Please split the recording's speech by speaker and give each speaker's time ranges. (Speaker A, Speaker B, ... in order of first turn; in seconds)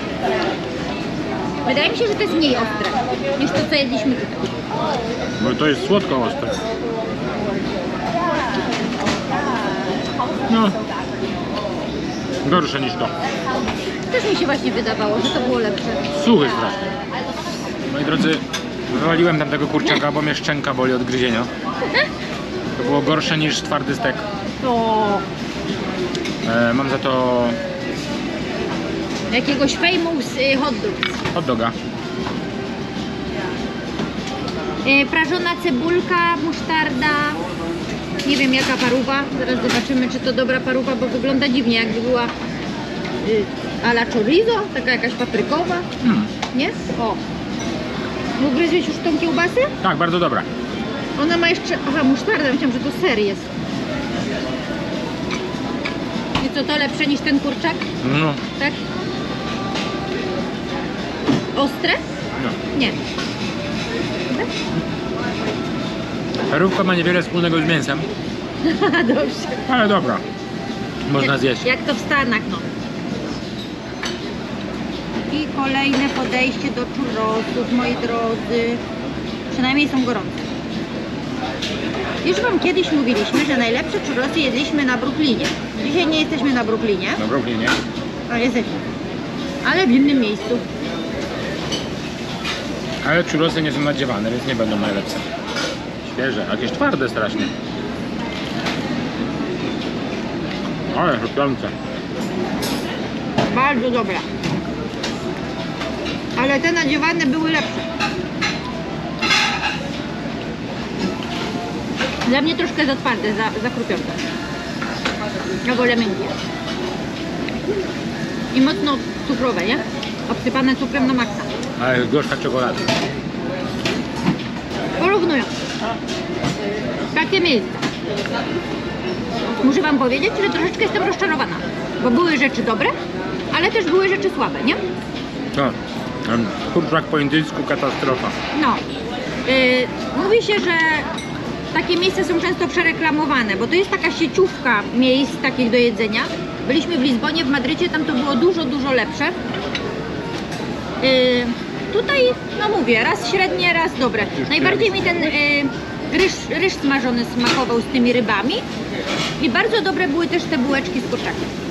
Speaker A: 1.6-4.6, 14.1-16.1, 24.6-25.2, 29.3-31.2, 34.9-37.4, 38.2-42.3, 43.2-45.9, 46.5-47.2, 48.4-49.7, 51.2-53.5, 56.4-57.9, 61.5-62.0, 68.6-69.6, 71.2-72.7, 75.3-78.8, 79.5-80.3, 82.2-87.2, 88.3-88.8, 89.6-90.6, 103.5-104.2, 106.4-107.9, 112.3-114.2, 115.7-116.3, 118.5-121.5, 125.0-125.5, 127.1-127.8, 129.6-132.9, 133.5-134.8, 138.5-138.8, 139.5-141.1, 141.7-149.3, 151.0-158.7, 159.4-161.5
Speaker B: 5.4-6.5, 10.5-10.8, 12.4-13.1, 16.1-16.9, 17.9-21.5, 22.8-24.2, 26.4-27.6, 31.3-31.8, 46.0-46.3, 49.8-50.5, 58.0-58.4, 66.5-68.1, 69.7-70.2, 71.1-71.7, 87.2-87.8, 93.0-95.3, 96.0-97.5, 100.9-101.7, 121.8-122.8, 135.5-138.3, 154.3-155.3